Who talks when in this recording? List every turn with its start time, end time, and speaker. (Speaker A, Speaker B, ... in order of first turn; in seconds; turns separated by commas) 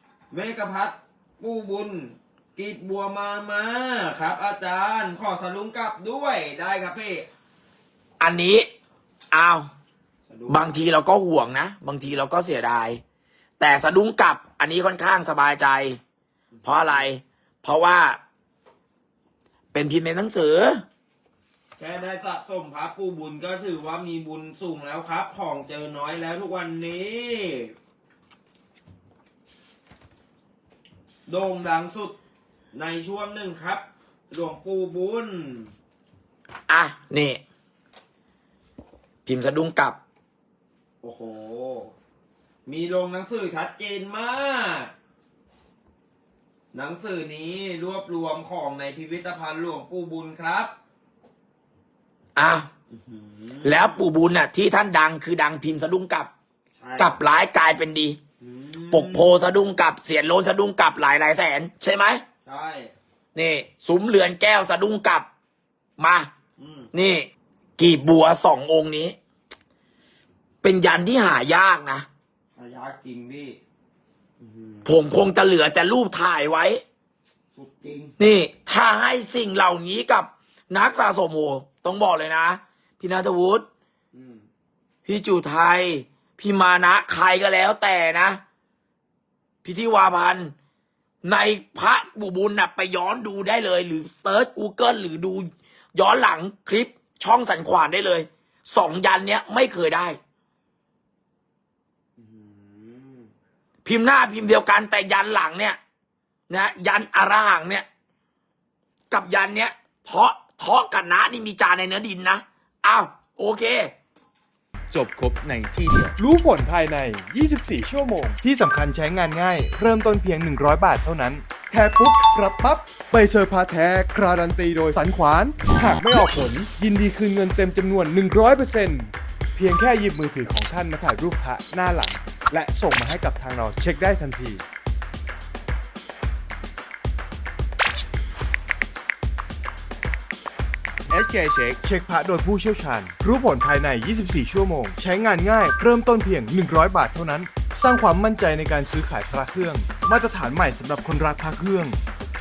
Speaker A: 0.3-7.3, Speaker B: 8.2-8.7, Speaker B: 9.3-9.7, Speaker A: 10.3-10.7, Speaker B: 10.5-13.0, Speaker B: 13.6-16.0, Speaker A: 16.5-17.0, Speaker B: 16.6-18.2, Speaker B: 19.7-20.8, Speaker A: 21.8-27.7, Speaker A: 31.3-32.2, Speaker A: 32.7-35.7, Speaker B: 36.7-37.4, Speaker B: 39.3-40.0, Speaker A: 41.0-41.9, Speaker A: 42.7-44.9, Speaker A: 46.7-50.7, Speaker B: 52.4-52.7, Speaker A: 52.9-54.0, Speaker B: 53.6-56.3, Speaker A: 56.8-57.2, Speaker B: 57.0-58.2, Speaker A: 58.4-59.2, Speaker B: 58.9-62.2, Speaker A: 62.5-62.9, Speaker B: 63.4-65.3, Speaker B: 66.0-66.3, Speaker A: 66.6-66.9, Speaker B: 66.9-69.2, Speaker B: 70.6-72.1, Speaker A: 72.6-73.6, Speaker A: 74.4-74.9, Speaker B: 74.9-76.8, Speaker A: 77.5-78.1, Speaker B: 78.2-83.7, Speaker A: 84.1-84.5, Speaker B: 85.0-88.4, Speaker B: 89.6-90.5, Speaker B: 91.2-100.2, Speaker A: 102.2-103.3, Speaker B: 103.8-105.8, Speaker B: 106.5-107.9, Speaker B: 109.1-113.9, Speaker C: 114.9-116.2, Speaker D: 116.2-134.6, Speaker C: 141.1-141.8, Speaker D: 141.8-152.0